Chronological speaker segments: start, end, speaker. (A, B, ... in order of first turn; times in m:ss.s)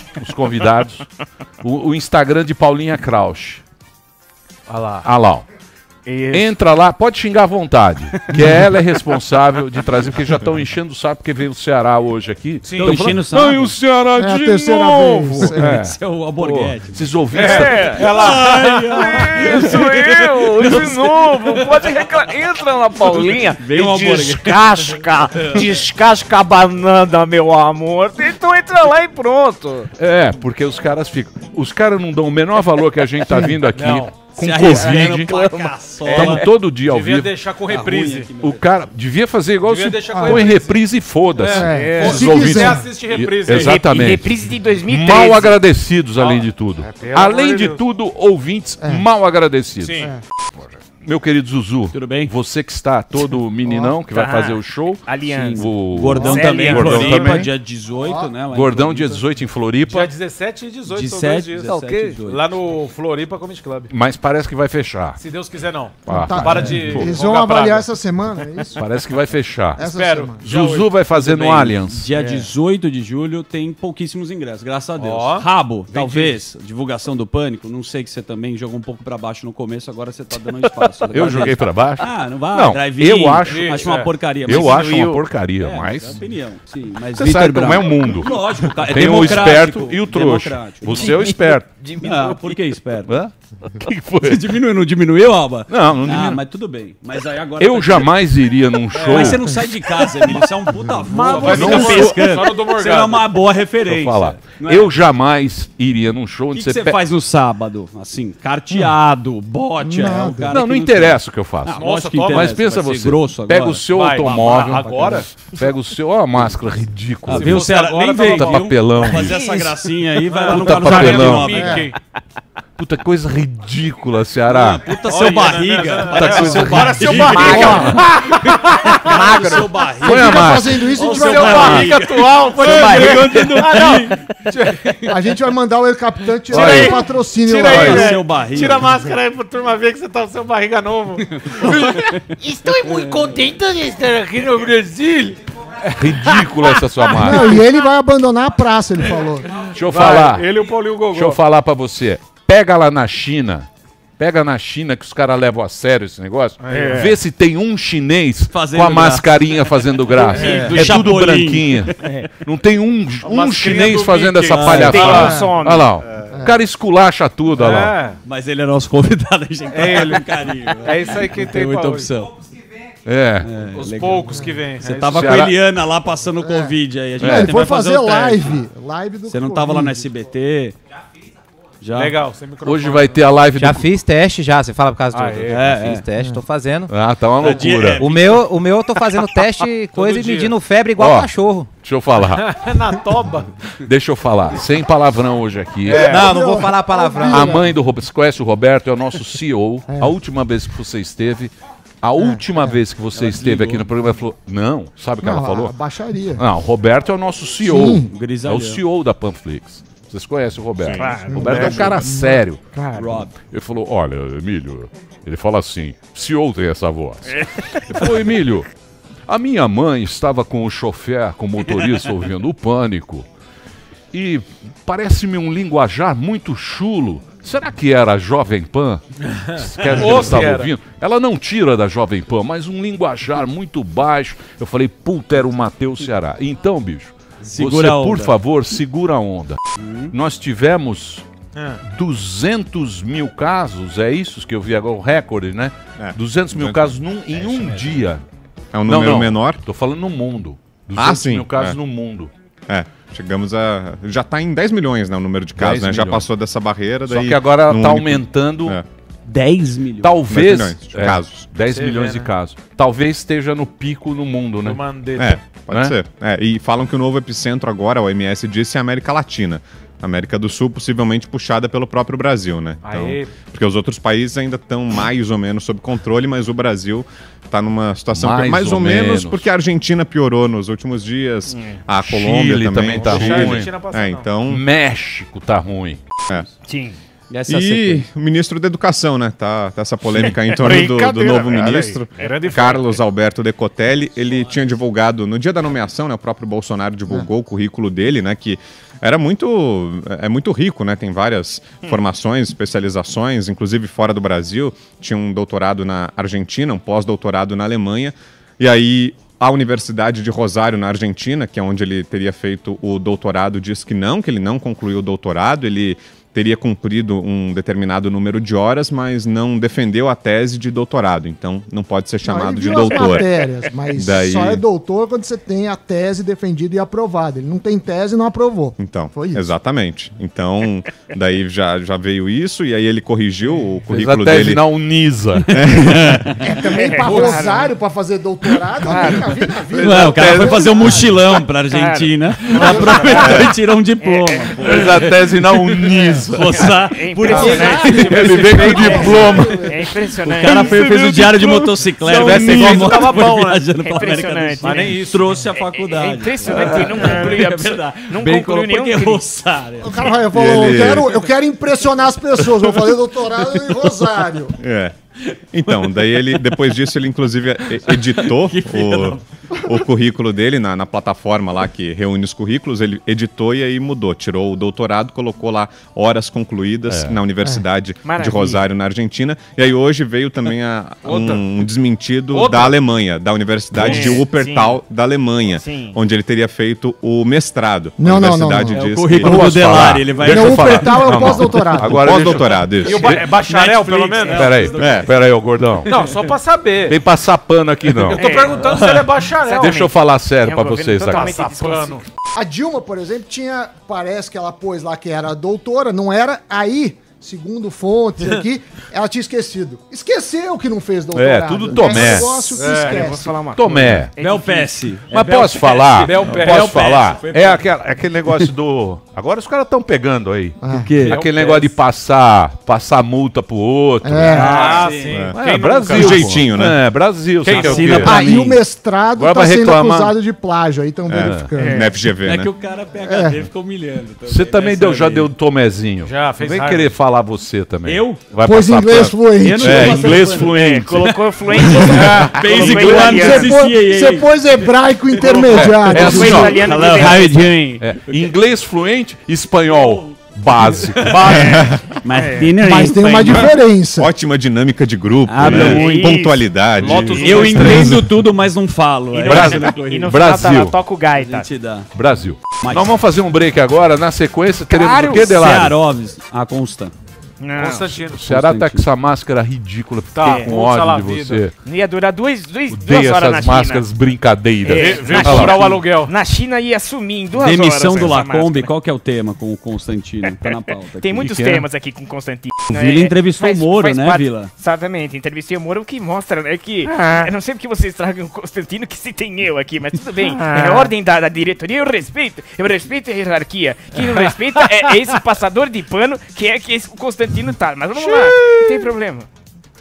0:00.2-0:01.1 A
0:01.6-0:03.6 A
0:04.7-0:05.1 B
0:05.0-0:05.4 A
0:06.1-0:06.5 C
0:06.3-0:18.0 A
0:08.3-0:08.6 D
0:12.6-0:13.0 B
0:12.8-0:13.7 D
0:14.2-0:15.8 E
0:15.5-0:17.1 D
0:17.3-0:19.6 B
0:17.4-0:29.9 C
0:17.7-0:21.9 D
0:23.0-0:25.6 D
0:30.0-0:35.3 A
0:33.3-0:33.6 E
0:33.6-0:34.2 B
0:34.4-0:36.4 D
0:34.7-0:36.4 C
0:36.0-0:38.3 B
0:36.1-0:37.3 A
0:37.7-0:38.7 D
0:38.4-0:50.1 A
0:39.6-0:43.9 B
0:40.1-0:40.5 E
0:41.5-0:43.0 E
0:41.6-0:42.3 C
0:43.5-0:45.6 C
0:46.2-0:47.8 B
0:48.8-0:49.1 E
0:49.8-0:50.1 B
0:50.6-0:57.5 A
0:51.9-0:52.3 D
0:53.6-0:54.0 E
0:54.1-0:57.3 C
0:55.3-0:59.2 D
0:56.1-0:56.5 E
0:58.0-0:58.4 E
0:58.5-1:00.1 A
0:59.8-1:03.9 B
1:00.9-1:02.4 D
1:03.9-1:05.2 A
1:05.2-1:07.9 B
1:06.0-1:07.1 A
1:06.1-1:08.8 E
1:06.6-1:06.8 D
1:08.8-1:12.1 A
1:09.8-1:10.5 E
1:09.9-1:11.0 B
1:11.2-1:25.0 D
1:12.2-1:12.5 B
1:15.0-1:16.4 B
1:21.1-1:23.9 A
1:23.4-1:24.6 B
1:24.4-1:26.2 A
1:24.8-1:25.2 C
1:25.6-1:31.2 D
1:27.2-1:31.8 A
1:32.0-1:33.1 D
1:33.1-1:34.4 A
1:34.2-1:38.1 D
1:35.7-1:36.4 A
1:37.6-1:39.6 A
1:38.9-1:39.3 B
1:39.0-1:44.9 D
1:41.1-1:43.3 B
1:41.4-1:42.3 A
1:43.8-1:47.0 A
1:46.5-1:53.8 D
1:49.8-1:50.6 E
1:50.5-1:57.8 A
1:51.7-1:52.8 B
1:53.9-1:55.6 B
1:57.3-2:01.9 D
1:57.3-1:58.7 B
1:58.3-1:59.4 A
2:00.2-2:02.0 B
2:00.5-2:01.6 A
2:01.6-2:01.8 E
2:02.8-2:04.8 A
2:04.5-2:14.4 D
2:05.0-2:09.3 B
2:06.0-2:09.1 A
2:07.2-2:07.6 F
2:07.5-2:08.0 E
2:09.1-2:09.7 F
2:10.0-2:11.8 E
2:10.0-2:10.8 A
2:11.0-2:15.2 B
2:11.5-2:11.9 A
2:15.1-2:18.2 E
2:16.5-2:27.2 B
2:16.5-2:17.0 A
2:17.6-2:18.9 D
2:17.7-2:18.0 A
2:21.6-2:22.2 D
2:25.9-2:27.7 A
2:27.1-2:29.6 E
2:29.7-2:30.5 A
2:29.9-2:31.4 B
2:31.1-2:48.0 A
2:36.6-2:37.2 B
2:36.7-2:37.2 C
2:38.5-2:42.2 D
2:40.3-2:41.1 B
2:43.2-2:44.8 B
2:44.5-2:45.3 D
2:44.7-2:45.9 C
2:45.1-2:45.5 E
2:46.3-2:46.5 E
2:47.6-2:48.2 B
2:48.3-2:52.3 D
2:49.7-2:52.1 B
2:53.0-2:53.5 A
2:53.4-2:58.6 D
2:53.6-2:55.5 B
2:54.2-2:54.5 E
2:55.1-2:55.5 A
2:56.4-3:00.1 E
2:57.2-2:57.5 A
2:59.3-3:00.8 D
3:01.8-3:02.2 D
3:01.9-3:03.3 B
3:02.6-3:03.9 A
3:03.5-3:06.9 F
3:05.1-3:05.7 B
3:05.5-3:06.1 D
3:06.2-3:06.4 E
3:06.9-3:08.1 A
3:07.4-3:08.4 D
3:08.0-3:11.7 F
3:09.3-3:10.6 B
3:11.0-3:12.5 A
3:12.2-3:13.7 B
3:13.8-3:16.1 A
3:15.8-3:16.3 B
3:16.0-3:17.7 F
3:16.0-3:17.6 E
3:17.2-3:25.8 A
3:19.9-3:20.2 E
3:22.2-3:22.8 E
3:23.1-3:23.9 D
3:25.2-3:26.5 E
3:26.4-3:32.6 A
3:27.6-3:28.1 E
3:28.0-3:28.8 D
3:30.9-3:32.0 C
3:31.1-3:32.4 E
3:32.8-3:33.2 C
3:32.9-3:33.3 D
3:33.4-3:38.7 A
3:37.5-3:37.8 C
3:39.3-3:43.2 A
3:44.1-3:59.6 A
3:49.8-3:50.4 D
3:49.9-3:50.7 B
3:57.4-3:58.4 D
3:59.8-4:00.1 D
4:00.1-4:01.2 A
4:01.5-4:01.8 B
4:01.8-4:08.2 A
4:06.0-4:06.9 G
4:08.7-4:09.6 G
4:08.9-4:12.3 A
4:11.0-4:11.8 G
4:12.7-4:18.8 G
4:15.6-4:16.2 A
4:17.1-4:18.8 A
4:19.3-4:20.1 D
4:20.0-4:24.8 A
4:20.3-4:21.5 G
4:21.7-4:22.3 B
4:24.6-4:25.4 B
4:25.2-4:44.6 G
4:25.7-4:26.0 A
4:32.8-4:33.4 B
4:38.1-4:39.5 A
4:41.5-4:41.8 C
4:42.0-4:43.8 A
4:42.8-4:44.4 B
4:44.4-4:46.0 A
4:46.7-4:47.0 C
4:47.3-4:48.0 F
4:47.5-5:23.3 G
4:50.1-4:51.6 C
4:51.5-4:53.0 B
5:22.2-5:29.5 E
5:22.8-5:23.2 C
5:23.9-5:24.6 G
5:28.8-5:34.6 G
5:33.9-5:35.6 A
5:35.5-5:36.4 G
5:35.7-5:36.4 D
5:36.4-5:41.2 E
5:36.7-5:37.7 C
5:37.1-5:37.5 B
5:38.8-5:39.9 C
5:39.8-5:49.7 D
5:40.0-5:41.0 A
5:41.7-5:43.4 C
5:42.5-5:43.1 E
5:43.2-5:43.5 G
5:44.0-5:44.9 C
5:44.6-5:46.8 A
5:46.4-5:48.4 C
5:47.2-5:49.4 B
5:47.3-5:49.8 E
5:48.0-5:49.7 A
5:49.6-5:50.8 C
5:50.2-6:00.1 D
5:50.3-5:53.1 A
5:52.4-5:53.6 B
5:53.8-5:59.2 C
5:54.6-5:55.3 B
5:57.0-5:57.2 B
5:59.8-6:04.6 E
6:00.3-6:01.1 G
6:02.3-6:04.3 D
6:04.6-6:05.0 G
6:05.3-6:06.7 D
6:05.5-6:29.8 G
6:07.8-6:09.2 D
6:16.9-6:17.2 A
6:18.0-6:18.6 C
6:21.0-6:21.5 B
6:22.3-6:22.7 B
6:23.8-6:24.8 C
6:25.6-6:26.0 C
6:28.0-6:28.9 E
6:28.7-6:31.1 D
6:29.2-6:33.3 A
6:30.2-6:32.2 E
6:31.9-6:33.0 G
6:32.8-6:34.6 B
6:33.0-6:35.2 D
6:34.3-6:36.0 A
6:34.8-6:35.1 G
6:35.9-6:36.2 D
6:35.9-6:37.0 B
6:36.9-6:38.3 A
6:38.0-6:39.8 B
6:38.1-6:38.6 C
6:38.5-6:39.2 D
6:39.4-6:42.0 C
6:39.5-6:41.3 A
6:41.0-6:42.0 B
6:42.4-6:54.0 E
6:51.1-6:52.7 A
6:52.6-6:53.3 B
6:52.7-6:54.7 C
6:53.5-6:54.1 A
6:54.2-6:57.6 D
6:55.1-7:00.6 A
6:55.9-6:57.2 B
7:00.6-7:01.0 E
7:00.7-7:01.2 D
7:01.0-7:01.7 B
7:01.1-7:04.6 A
7:04.0-7:04.8 E
7:04.3-7:05.2 D
7:04.4-7:06.5 B
7:05.1-7:06.8 G
7:05.3-7:08.4 A
7:07.4-7:08.0 B
7:07.5-7:08.6 D
7:08.0-7:11.9 E
7:09.2-7:10.2 A
7:11.1-7:12.5 G
7:11.2-7:11.5 A
7:11.6-7:11.9 C
7:12.2-7:15.3 D
7:13.0-7:13.5 E
7:14.3-7:21.2 A
7:16.0-7:17.0 B
7:17.8-7:18.2 D
7:18.4-7:20.4 E
7:19.4-7:21.0 D
7:20.5-7:23.6 C
7:21.7-7:28.2 D
7:21.7-7:22.1 E
7:21.8-7:23.5 A
7:22.7-7:27.0 E
7:25.4-7:27.1 A
7:26.0-7:27.5 C
7:27.8-7:31.5 A
7:29.7-7:30.1 D
7:30.8-7:31.3 D
7:31.2-7:32.6 C
7:31.3-7:32.0 G
7:32.0-7:33.6 D
7:32.6-7:34.1 E
7:33.3-7:37.7 G
7:35.3-7:36.0 D
7:35.4-7:37.8 C
7:36.8-7:37.7 A
7:37.2-7:40.2 D
7:37.6-7:38.0 E
7:39.2-7:41.5 C
7:39.3-7:40.8 A
7:41.1-7:41.9 D
7:41.9-7:45.8 A
7:42.6-7:42.9 D
7:44.7-7:45.4 C
7:45.3-7:46.9 D
7:47.4-7:48.0 C
7:47.6-7:48.2 B
7:48.1-7:51.5 A
7:48.2-7:48.9 D
7:50.1-7:51.5 B
7:50.2-7:50.6 C
7:51.6-7:53.9 C
7:52.7-7:55.6 A
7:54.6-7:58.7 C
7:54.7-7:56.1 B
7:57.4-8:01.4 D
8:01.0-8:19.3 C
8:01.2-8:01.7 A
8:02.7-8:04.5 D
8:18.0-8:18.9 A